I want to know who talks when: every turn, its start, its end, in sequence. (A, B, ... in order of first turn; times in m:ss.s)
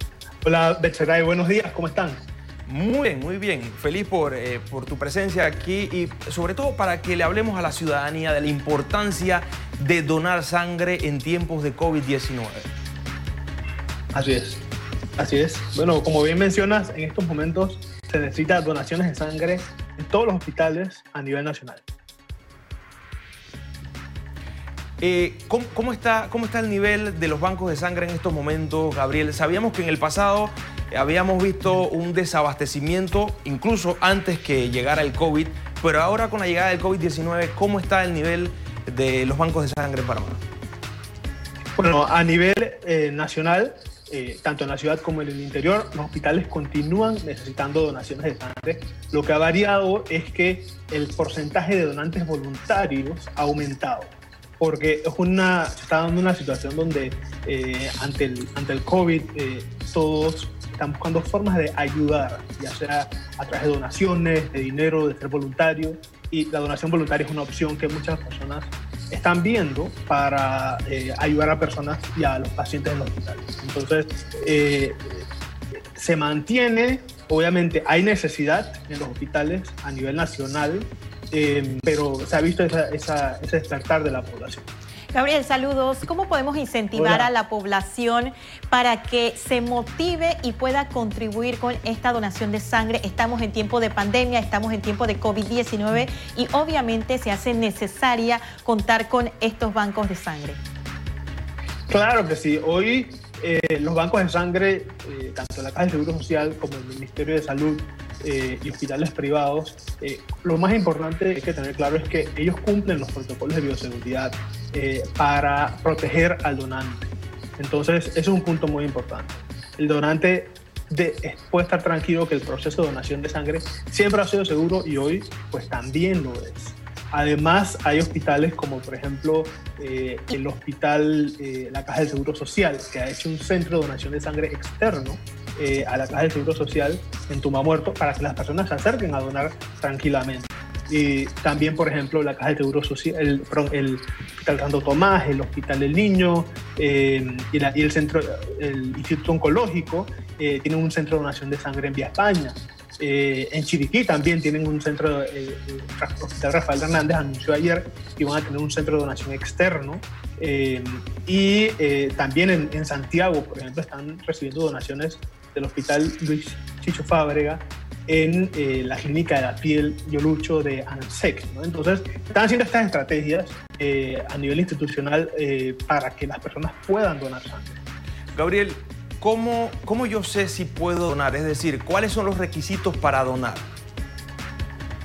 0:00.4-0:02.2 A
0:02.7-0:12.7 B
0:14.1-0:14.6 A
0:15.2-0:21.8 A
0:25.0-0:40.4 B
0:41.8-1:15.2 A
1:16.0-1:24.7 A
1:25.1-1:40.6 C
1:26.9-1:27.3 A
1:41.9-2:57.8 A
2:58.3-3:03.7 B